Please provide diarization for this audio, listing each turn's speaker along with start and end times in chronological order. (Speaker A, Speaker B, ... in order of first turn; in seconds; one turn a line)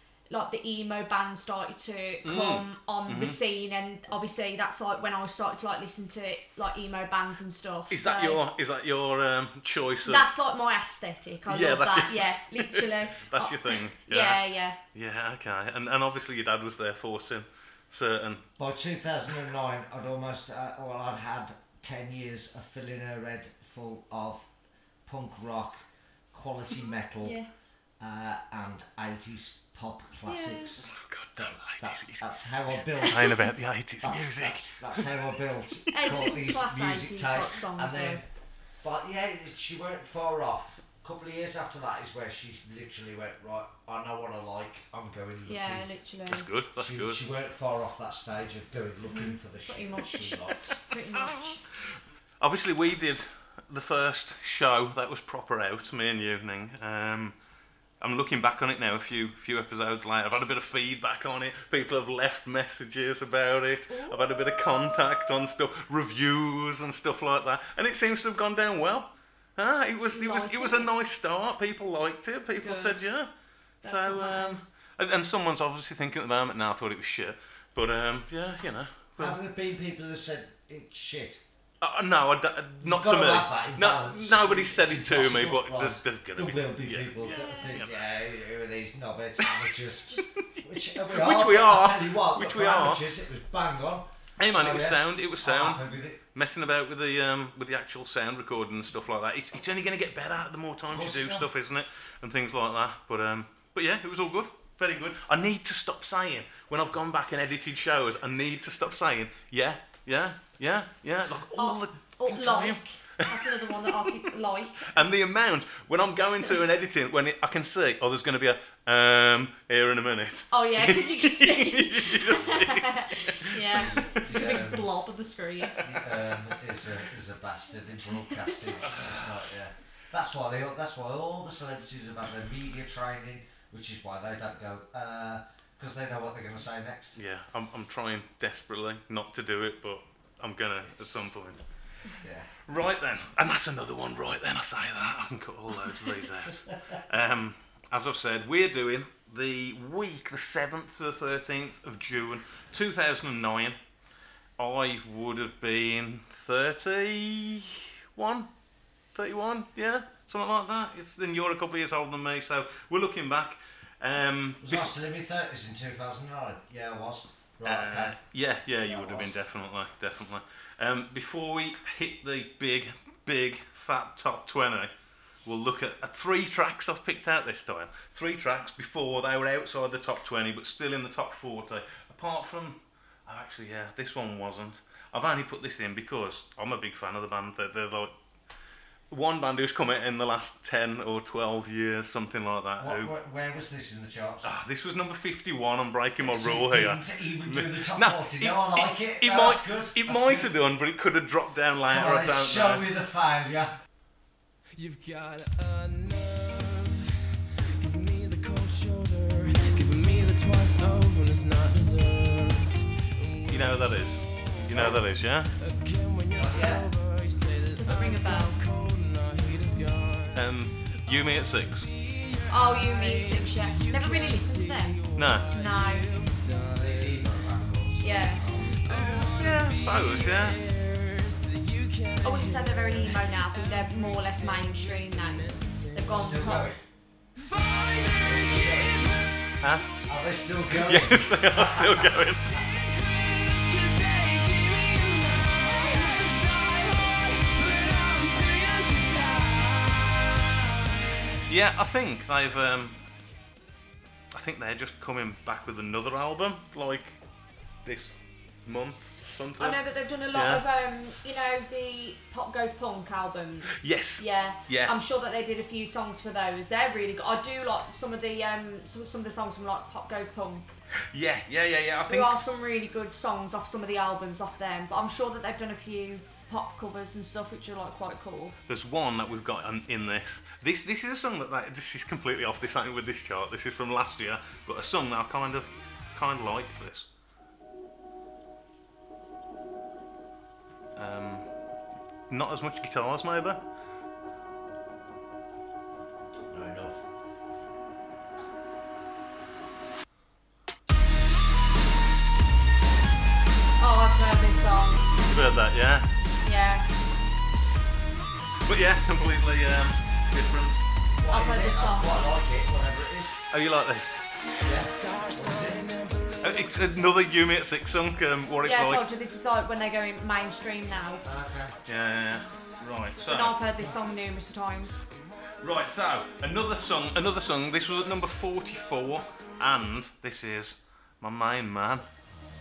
Speaker A: 0.3-8.4
Speaker B: 2.2-3.4
Speaker B: 7.9-10.3
Speaker A: 10.0-14.8
Speaker B: 11.5-18.4
Speaker C: 18.6-24.5
Speaker C: 25.1-27.4
Speaker C: 28.0-38.2
Speaker A: 30.2-30.7
Speaker B: 30.8-32.2
Speaker B: 32.9-35.4
Speaker A: 35.9-38.2
Speaker C: 38.8-45.9
Speaker A: 45.5-46.5
Speaker B: 46.3-47.2
Speaker C: 46.8-50.7
Speaker A: 49.1-51.6
Speaker B: 52.4-57.3
Speaker B: 58.0-73.3
Speaker A: 63.9-64.2
Speaker A: 70.1-70.9
Speaker A: 72.6-73.1
Speaker A: 73.8-74.7
Speaker B: 73.8-79.4
Speaker C: 79.2-81.4
Speaker B: 81.8-88.0
Speaker C: 82.8-96.2
Speaker A: 87.2-87.8
Speaker B: 89.4-89.8
Speaker B: 90.4-93.0
Speaker B: 94.4-95.8
Speaker B: 96.3-114.2
Speaker C: 100.9-101.5
Speaker A: 111.5-115.0
Speaker B: 114.9-124.1
Speaker A: 120.5-125.8
Speaker C: 123.8-125.0
Speaker C: 125.8-137.2
Speaker A: 128.3-128.6
Speaker B: 128.9-129.3
Speaker B: 137.2-141.6
Speaker C: 142.2-142.5
Speaker B: 142.7-153.8
Speaker B: 154.6-158.5
Speaker B: 159.1-164.9
Speaker C: 164.6-168.2
Speaker B: 167.6-174.9
Speaker C: 168.8-169.3
Speaker B: 175.4-188.1
Speaker B: 189.1-193.1
Speaker C: 192.8-194.5
Speaker B: 194.4-202.8
Speaker C: 196.2-200.5
Speaker C: 201.9-203.7
Speaker D: 204.7-207.0
Speaker D: 207.8-214.5
Speaker B: 213.5-215.5
Speaker D: 215.6-220.4
Speaker C: 216.3-216.9
Speaker A: 217.8-218.6
Speaker B: 220.3-221.9
Speaker D: 221.9-226.8
Speaker A: 222.5-226.1
Speaker B: 225.1-225.5
Speaker C: 226.6-228.9
Speaker A: 228.0-228.4
Speaker D: 228.6-236.5
Speaker B: 229.2-230.6
Speaker A: 232.2-236.7
Speaker C: 236.1-236.8
Speaker D: 237.4-239.3
Speaker C: 238.2-239.0
Speaker B: 239.6-239.9
Speaker C: 240.1-242.6
Speaker B: 240.8-242.6
Speaker D: 242.8-250.5
Speaker B: 251.5-252.9
Speaker B: 254.3-257.1
Speaker B: 257.8-259.8
Speaker A: 259.6-270.8
Speaker B: 260.3-260.6
Speaker B: 263.7-264.9
Speaker B: 271.1-272.4
Speaker A: 272.1-278.6
Speaker B: 278.7-287.1
Speaker B: 290.9-291.5
Speaker B: 292.3-293.6
Speaker C: 296.5-297.0
Speaker A: 303.8-305.1
Speaker B: 305.3-306.1
Speaker A: 306.4-306.9
Speaker B: 308.6-310.8
Speaker C: 311.2-313.4
Speaker A: 311.3-312.1
Speaker B: 313.5-314.1
Speaker C: 314.6-315.9
Speaker D: 314.9-317.2
Speaker B: 316.4-319.0
Speaker A: 318.6-321.2
Speaker C: 321.2-321.7
Speaker B: 321.9-323.6
Speaker A: 323.2-325.0
Speaker B: 325.6-332.1